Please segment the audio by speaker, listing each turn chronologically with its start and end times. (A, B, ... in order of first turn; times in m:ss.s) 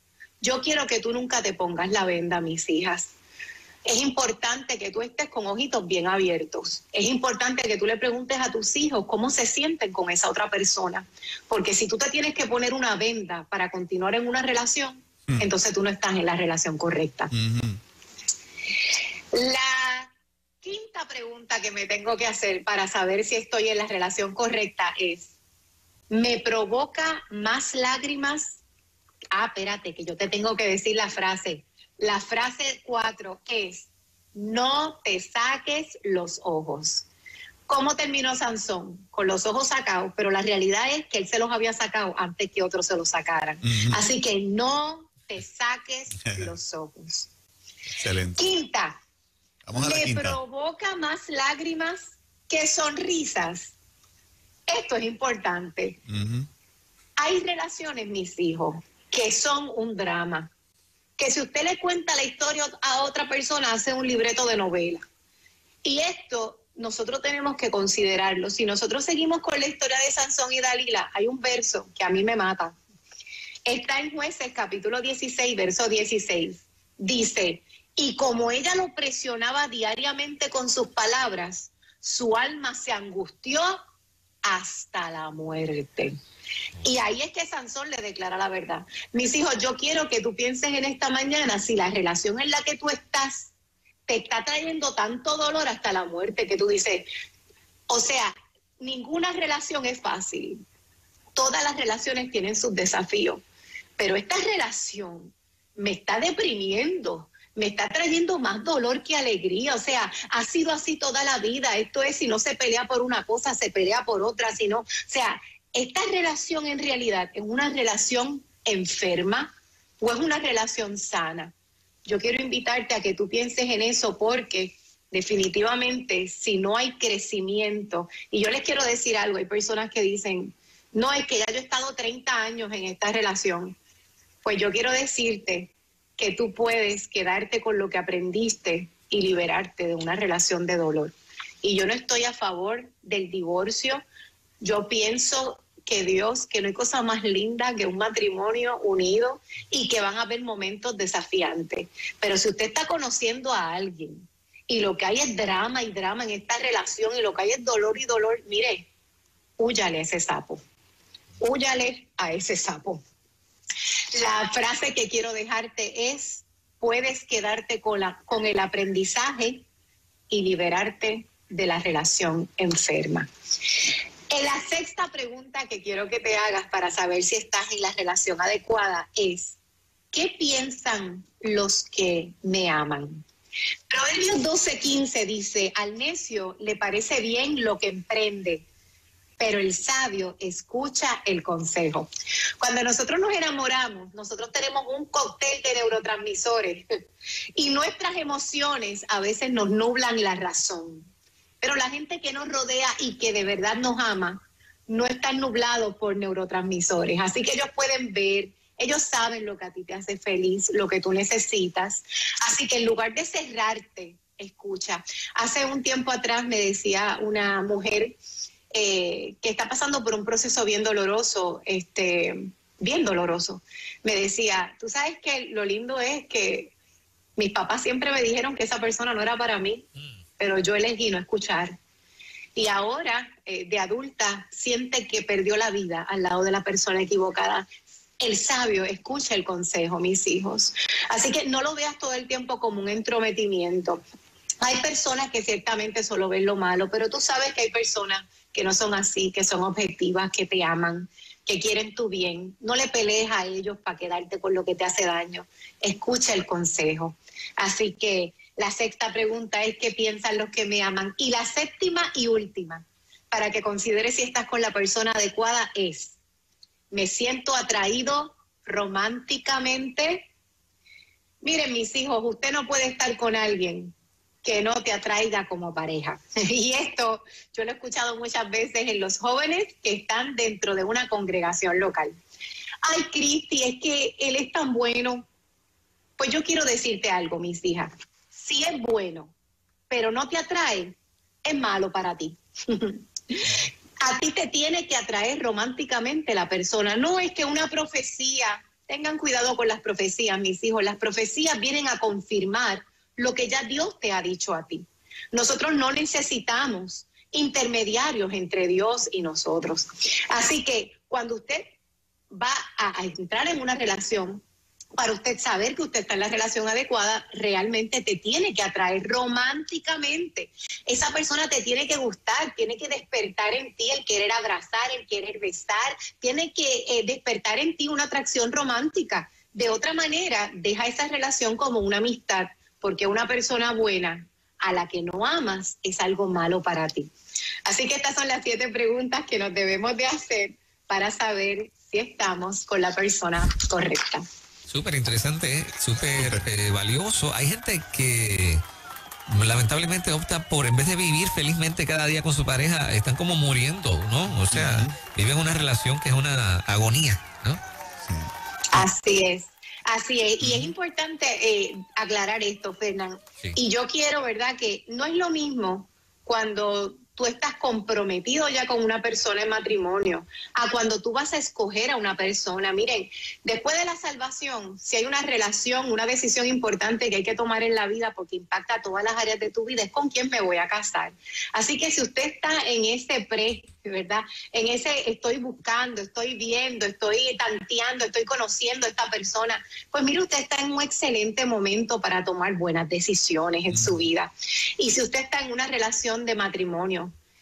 0:00.4-0:03.1 A
0:03.8-0:17.3 A
0:17.3-0:17.8 B
0:19.3-0:20.1 A
0:20.6-0:25.3 A
0:26.1-0:28.6 A
0:29.3-0:37.0 A
0:37.7-0:47.3 A
0:43.6-0:44.0 B
0:48.0-0:48.5 B
0:48.4-0:49.0 A
0:49.6-0:50.4 B
0:49.7-0:53.7 A
0:54.7-0:56.0 A
0:56.1-0:56.5 B
0:57.2-1:00.5 A
1:01.2-1:05.0 A
1:05.8-1:12.7 A
1:13.6-1:23.8 A
1:24.4-1:26.1 A
1:26.8-1:33.5 A
1:34.1-1:37.0 A
1:37.9-1:40.6 A
1:41.3-1:43.4 A
1:44.0-2:01.5 A
2:02.0-2:13.8 A
2:14.4-2:24.0 A
2:24.6-2:38.8 A
2:39.6-2:40.6 A
2:41.4-2:43.0 A
2:44.1-2:49.6 A
2:50.3-2:59.6 A
3:00.1-3:03.2 A
3:03.9-3:08.6 A
3:09.4-3:12.1 A
3:12.6-3:16.8 A
3:17.6-3:21.1 A
3:21.6-3:38.1 A
3:38.7-3:46.7 A
3:47.4-3:49.8 A
3:50.4-3:51.7 A
3:52.6-3:57.6 A
3:58.2-4:04.0 A
4:04.6-4:26.2 A
4:26.9-4:30.3 A
4:31.4-4:42.1 A
4:42.8-4:45.2 A
4:46.2-4:49.3 A
4:49.9-5:11.8 A
5:12.3-5:14.4 A
5:15.0-5:37.1 A
5:37.6-5:44.2 A
5:44.7-5:48.6 C
5:46.2-5:46.4 B
5:49.3-5:57.6 C
5:54.5-5:55.0 B
5:58.0-5:58.3 B
5:58.7-6:37.1 A
6:00.4-6:00.7 C